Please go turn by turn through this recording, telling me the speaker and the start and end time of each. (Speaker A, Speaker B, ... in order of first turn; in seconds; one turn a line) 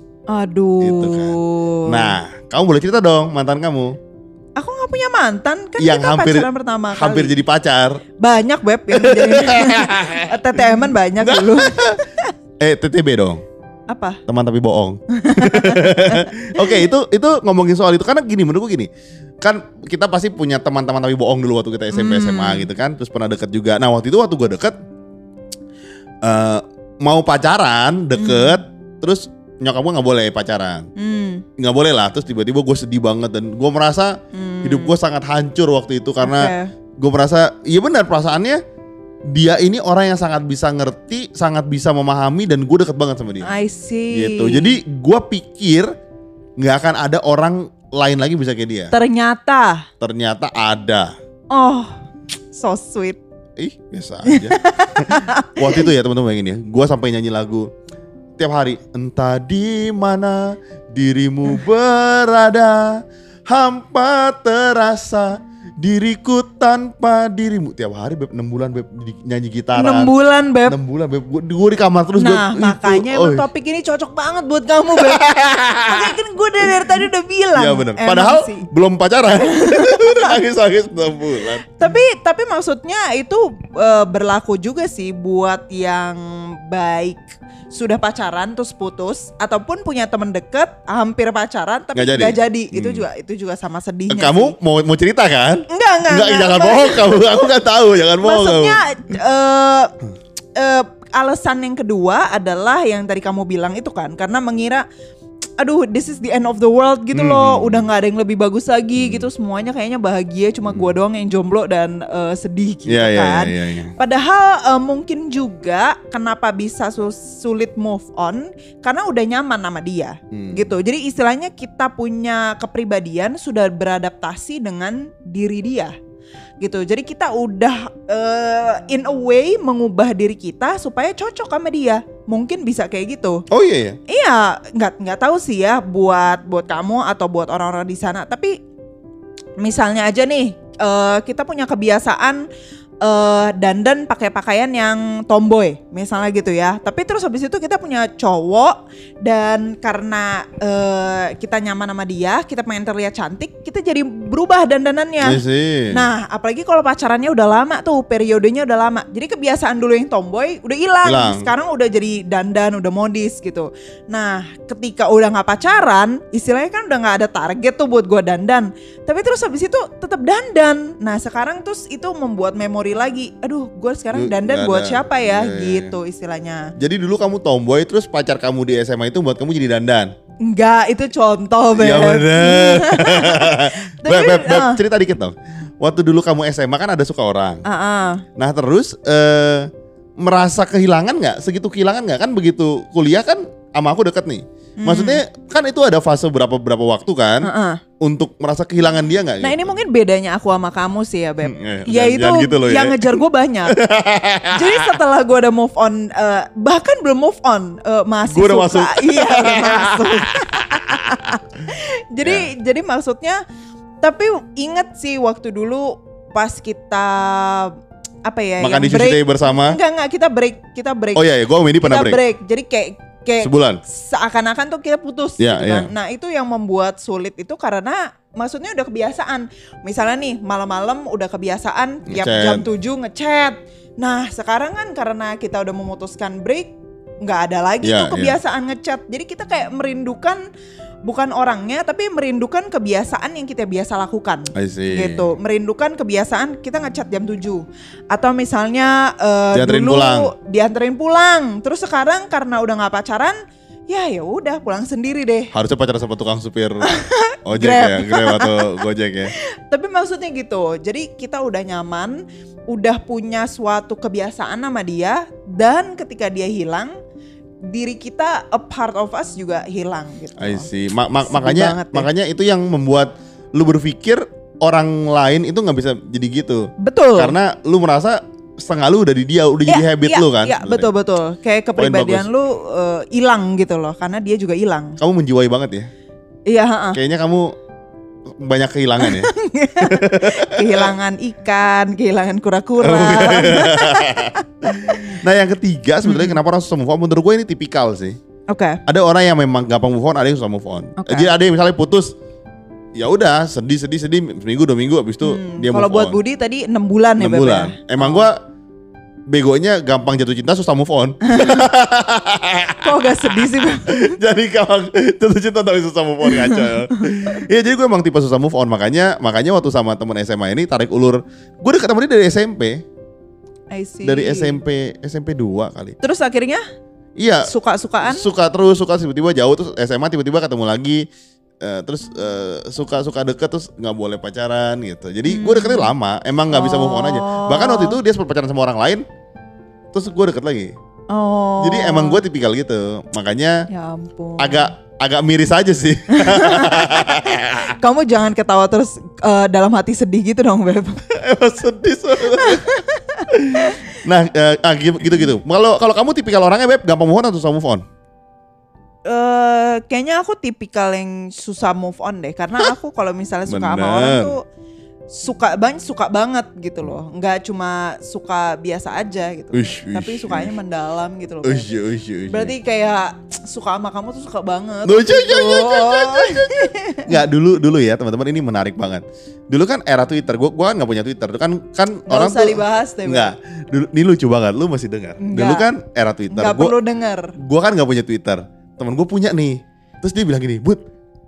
Speaker A: 0.3-2.2
Speaker B: 0.8-4.0
Speaker A: 4.6-7.3
Speaker B: 5.8-8.0
Speaker A: 8.2-12.3
Speaker B: 8.9-10.3
Speaker B: 11.2-12.0
Speaker B: 12.6-13.4
Speaker A: 13.9-14.2
Speaker B: 14.3-18.9
Speaker A: 15.1-16.8
Speaker B: 19.4-24.7
Speaker A: 21.9-22.7
Speaker B: 26.2-30.9
Speaker A: 28.1-28.6
Speaker A: 30.9-31.4
Speaker B: 31.6-38.6
Speaker A: 34.3-35.0
Speaker A: 36.2-36.7
Speaker B: 39.3-43.5
Speaker A: 43.4-44.8
Speaker B: 44.1-45.9
Speaker B: 46.6-48.9
Speaker A: 48.9-49.9
Speaker B: 50.0-51.1
Speaker A: 51.5-51.9
Speaker A: 52.5-53.2
Speaker B: 53.6-57.7
Speaker A: 54.3-55.9
Speaker B: 58.4-70.1
Speaker A: 69.8-70.8
Speaker B: 70.7-73.4
Speaker A: 72.2-75.2
Speaker B: 75.0-76.1
Speaker A: 75.8-78.7
Speaker B: 77.5-81.8
Speaker A: 79.3-80.4
Speaker A: 81.8-94.5
Speaker B: 91.9-93.0
Speaker B: 94.1-98.8
Speaker A: 95.7-97.5
Speaker A: 98.2-99.9
Speaker A: 100.5-104.8
Speaker A: 105.6-125.9
Speaker B: 107.1-107.8
Speaker B: 109.0-109.3
Speaker B: 112.9-113.9
Speaker B: 120.3-120.7
Speaker A: 126.6-133.4
Speaker B: 133.5-134.0
Speaker A: 134.1-138.5
Speaker A: 139.6-142.5
Speaker A: 143.0-176.7
Speaker B: 155.2-156.0
Speaker B: 161.0-161.5
Speaker B: 174.1-175.9
Speaker B: 176.8-180.1
Speaker A: 180.4-184.8
Speaker B: 181.8-187.6
Speaker A: 187.6-188.2
Speaker B: 188.4-197.5
Speaker A: 194.8-195.2
Speaker A: 197.4-197.8
Speaker B: 198.0-199.7
Speaker A: 199.4-203.8
Speaker B: 201.4-203.2
Speaker B: 203.7-205.0
Speaker A: 204.5-213.4
Speaker B: 208.3-211.1
Speaker B: 212.2-212.5
Speaker A: 214.0-217.7
Speaker A: 218.2-221.2
Speaker B: 218.6-219.8
Speaker B: 221.2-222.2
Speaker A: 221.8-240.4
Speaker B: 223.4-223.8
Speaker B: 225.4-225.9
Speaker B: 232.1-232.7
Speaker B: 237.8-238.3
Speaker A: 241.1-253.3
Speaker B: 244.5-245.3
Speaker B: 249.5-250.3
Speaker A: 253.9-255.5
Speaker B: 255.5-259.3
Speaker A: 256.8-258.8
Speaker A: 259.4-266.9
Speaker A: 267.6-270.7
Speaker B: 270.4-280.9
Speaker A: 271.2-272.1
Speaker A: 276.8-277.3
Speaker A: 279.7-285.0
Speaker B: 281.8-282.3
Speaker B: 285.0-285.9
Speaker A: 286.5-287.0
Speaker B: 286.9-287.5
Speaker B: 288.3-290.9
Speaker A: 289.0-295.1
Speaker B: 292.8-298.2
Speaker A: 296.0-296.4
Speaker A: 298.5-298.8
Speaker B: 298.9-302.1
Speaker A: 301.0-301.3
Speaker B: 302.9-306.2
Speaker A: 305.2-308.3
Speaker B: 307.2-308.4
Speaker B: 309.3-322.8
Speaker A: 311.2-311.6
Speaker A: 312.8-314.1
Speaker A: 316.2-316.8
Speaker A: 323.7-324.6
Speaker B: 324.0-325.9
Speaker A: 326.0-326.6
Speaker B: 327.2-327.5
Speaker A: 327.4-328.2
Speaker B: 328.0-331.1
Speaker B: 331.6-339.0
Speaker A: 335.3-335.9
Speaker A: 336.5-338.0
Speaker B: 339.9-340.7
Speaker A: 341.1-342.2
Speaker B: 341.6-343.7
Speaker A: 343.7-344.7
Speaker B: 344.4-347.7
Speaker A: 346.1-351.0
Speaker B: 351.1-352.6
Speaker A: 352.2-353.9
Speaker B: 353.3-357.8
Speaker A: 359.1-364.4
Speaker B: 363.5-364.3
Speaker A: 365.1-371.7
Speaker B: 369.5-370.5
Speaker B: 371.4-372.5
Speaker A: 372.3-377.3
Speaker B: 374.9-376.5
Speaker B: 377.1-386.7
Speaker A: 382.1-383.3
Speaker A: 385.2-385.7
Speaker A: 386.3-387.3
Speaker B: 387.4-390.8